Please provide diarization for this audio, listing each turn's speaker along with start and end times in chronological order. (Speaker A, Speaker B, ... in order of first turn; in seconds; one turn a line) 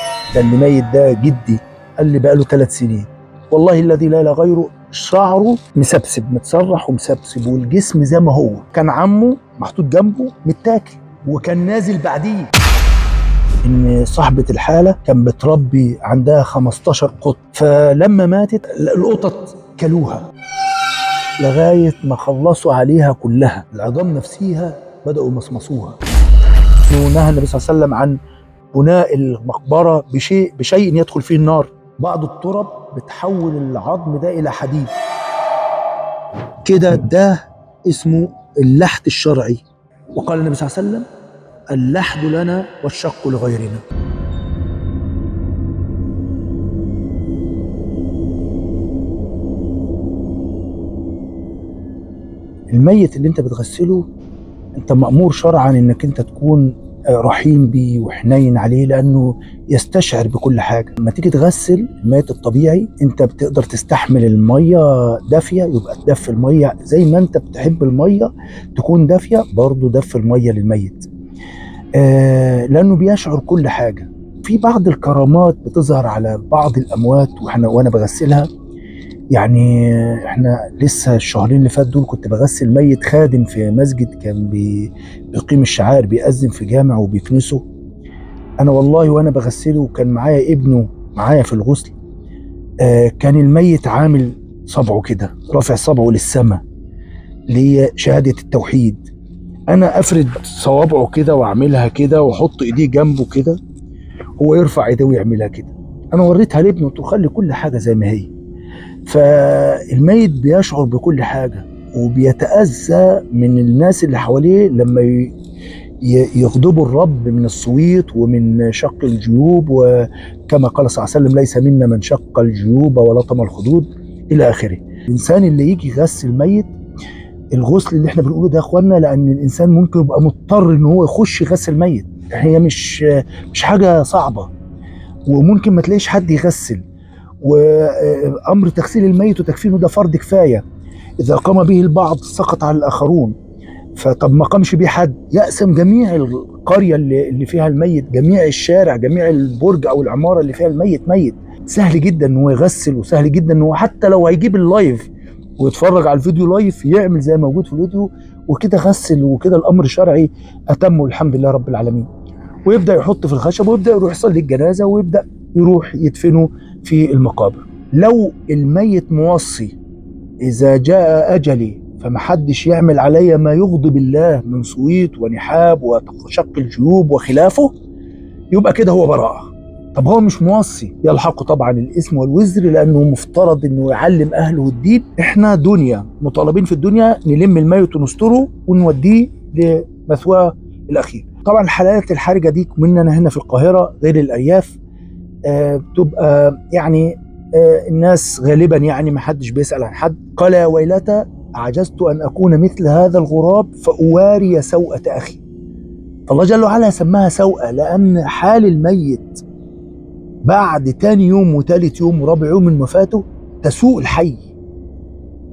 Speaker A: 0.3-12.5
Speaker A: 13.6-20.2
Speaker A: 21.4-26.0
Speaker A: 26.9-28.2
Speaker A: 28.7-34.9
Speaker A: 36.6-39.6
Speaker A: 40.1-41.1
Speaker A: 41.7-43.8
Speaker A: 52.7-54.0
Speaker A: 54.7-71.1
Speaker A: 72.0-78.5
Speaker A: 79.3-87.6
Speaker A: 88.6-91.9
Speaker A: 92.8-96.6
Speaker A: 97.5-99.0
Speaker A: 99.7-103.6
Speaker A: 104.4-108.3
Speaker A: 109.0-115.3
Speaker A: 116.0-126.7
Speaker A: 127.5-134.5
Speaker A: 135.3-136.8
Speaker A: 137.4-140.6
Speaker A: 141.2-143.3
Speaker A: 143.9-155.1
Speaker A: 155.6-162.1
Speaker A: 162.6-169.7
Speaker A: 170.4-177.7
Speaker A: 178.5-194.8
Speaker A: 195.5-205.4
Speaker A: 206.3-209.4
Speaker A: 210.4-214.4